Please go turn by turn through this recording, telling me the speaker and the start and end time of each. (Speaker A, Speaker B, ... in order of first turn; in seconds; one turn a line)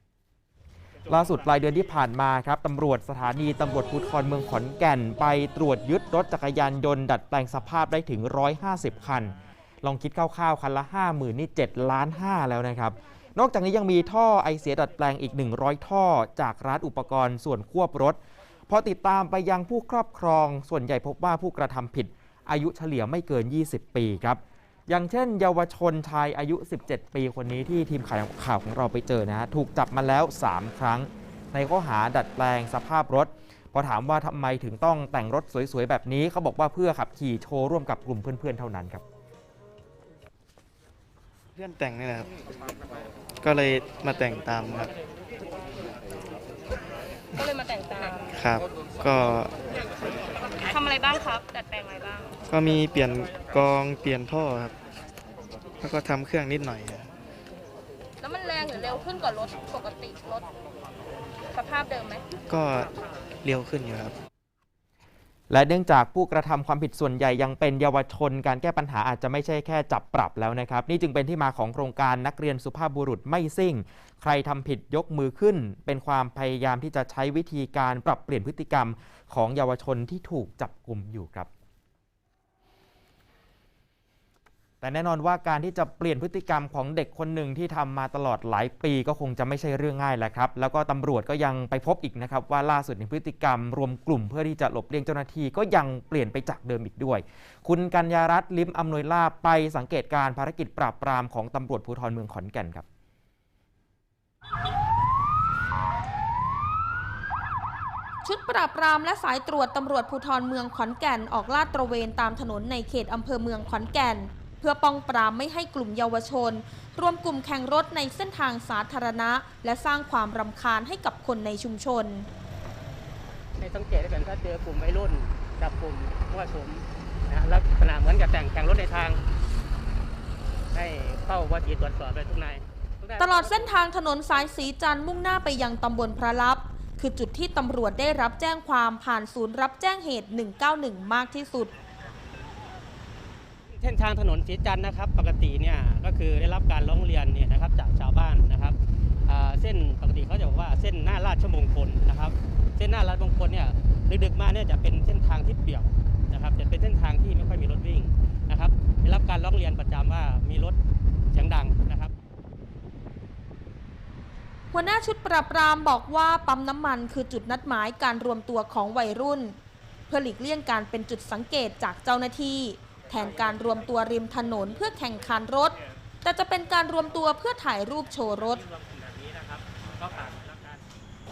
Speaker A: 1.1-18.2
Speaker A: 18.7-39.0
Speaker B: 41.5-42.3
Speaker B: 43.4-44.9
Speaker C: 47.4-48.3
Speaker B: 48.3-49.5
Speaker C: 50.6-52.4
Speaker B: 52.5-54.7
Speaker B: 55.8-57.1
Speaker C: 58.2-60.5
Speaker C: 61.5-62.2
Speaker B: 62.5-64.2
Speaker A: 65.5-81.5
Speaker A: 84.8-102.8
Speaker D: 108.2-122.3
Speaker E: 123.6-129.2
Speaker E: 130.7-133.7
Speaker D: 133.2-141.7
Speaker E: 143.8-160.8
Speaker E: 161.3-162.1
Speaker D: 164.7-169.6
Speaker D: 170.1-178.6
Speaker E: 178.7-180.8